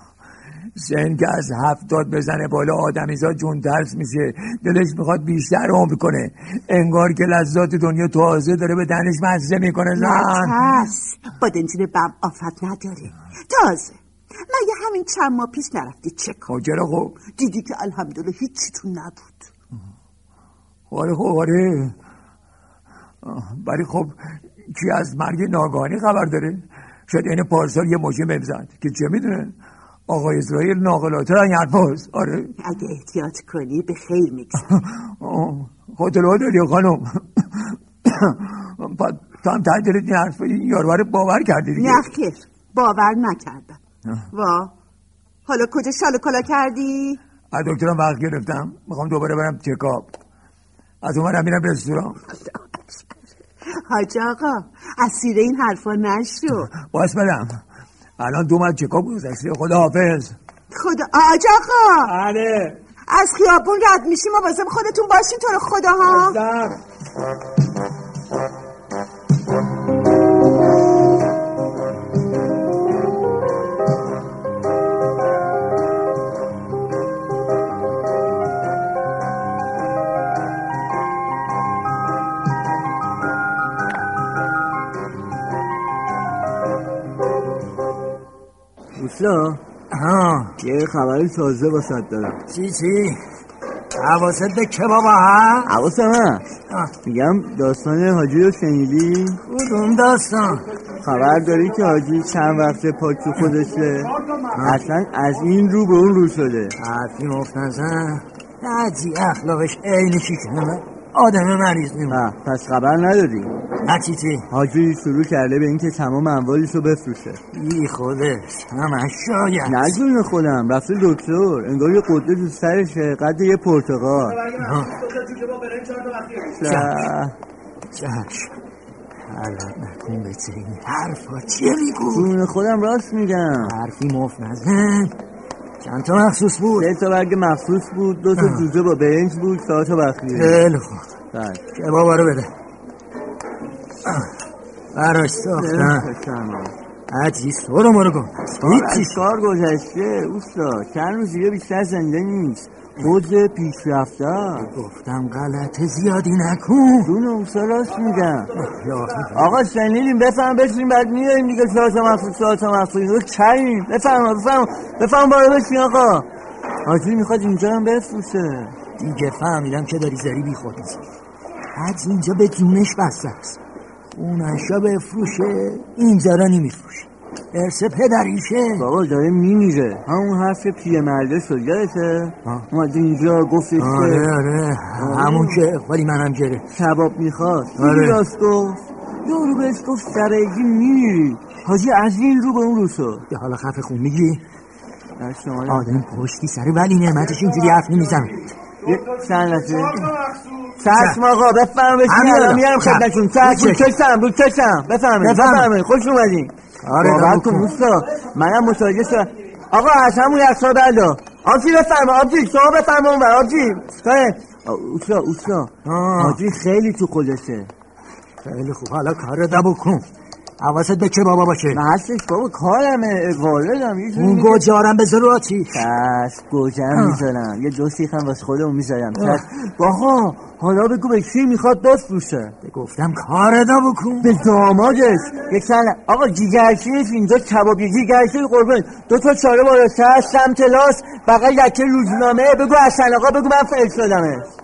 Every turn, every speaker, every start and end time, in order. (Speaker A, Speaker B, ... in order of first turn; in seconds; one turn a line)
Speaker A: 0.7-10.6
Speaker B: 9.9-16.5
Speaker A: 16.5-17.2
Speaker B: 17.2-19.5
Speaker A: 20.9-21.9
Speaker A: 23.2-24.1
Speaker A: 24.7-29.5
Speaker A: 30.1-32.5
Speaker B: 32.6-34.7
Speaker A: 34.7-42.1
Speaker B: 41.8-43.8
Speaker B: 44.3-44.7
Speaker B: 45.5-47.2
Speaker A: 47.5-50.1
Speaker A: 51.0-52.2
Speaker B: 52.3-56.7
Speaker A: 56.7-57.6
Speaker A: 58.2-60.4
Speaker B: 60.7-62.1
Speaker A: 62.0-62.8
Speaker B: 63.1-66.4
Speaker A: 66.1-66.8
Speaker C: 89.0-89.6
Speaker D: 89.9-90.5
Speaker C: 90.6-92.4
Speaker D: 92.5-93.2
Speaker D: 94.0-95.7
Speaker C: 95.7-96.4
Speaker C: 97.0-99.4
Speaker D: 99.5-100.6
Speaker C: 101.0-106.7
Speaker D: 104.5-104.8
Speaker D: 106.8-112.2
Speaker C: 112.1-113.5
Speaker D: 113.8-114.5
Speaker C: 114.5-117.4
Speaker D: 117.5-120.0
Speaker C: 119.6-124.5
Speaker D: 124.5-127.0
Speaker C: 126.5-127.3
Speaker D: 127.9-128.5
Speaker D: 129.3-132.3
Speaker C: 132.1-133.7
Speaker D: 133.6-135.2
Speaker D: 135.8-136.9
Speaker C: 136.8-140.6
Speaker D: 138.3-138.7
Speaker D: 140.3-141.1
Speaker C: 141.3-141.6
Speaker D: 141.7-142.5
Speaker D: 144.9-146.1
Speaker C: 145.6-146.7
Speaker D: 147.1-149.2
Speaker C: 148.6-154.7
Speaker D: 154.6-157.1
Speaker C: 157.0-158.5
Speaker D: 158.6-159.6
Speaker C: 159.3-166.3
Speaker C: 166.8-168.7
Speaker D: 169.0-171.0
Speaker D: 171.8-173.6
Speaker D: 174.1-178.8
Speaker C: 178.8-184.3
Speaker D: 183.8-186.6
Speaker C: 185.0-185.6
Speaker C: 186.7-193.2
Speaker D: 187.8-188.2
Speaker D: 193.3-194.4
Speaker C: 195.2-196.0
Speaker D: 195.7-198.5
Speaker C: 198.8-200.1
Speaker C: 200.8-217.7
Speaker D: 200.9-201.2
Speaker D: 202.1-203.8
Speaker D: 205.2-205.7
Speaker D: 206.8-207.7
Speaker D: 215.8-216.4
Speaker D: 218.4-220.0
Speaker D: 220.6-221.8
Speaker C: 221.7-224.7
Speaker D: 224.1-225.8
Speaker C: 225.7-232.5
Speaker D: 226.9-227.2
Speaker D: 229.2-229.4
Speaker D: 232.6-234.4
Speaker C: 234.2-244.5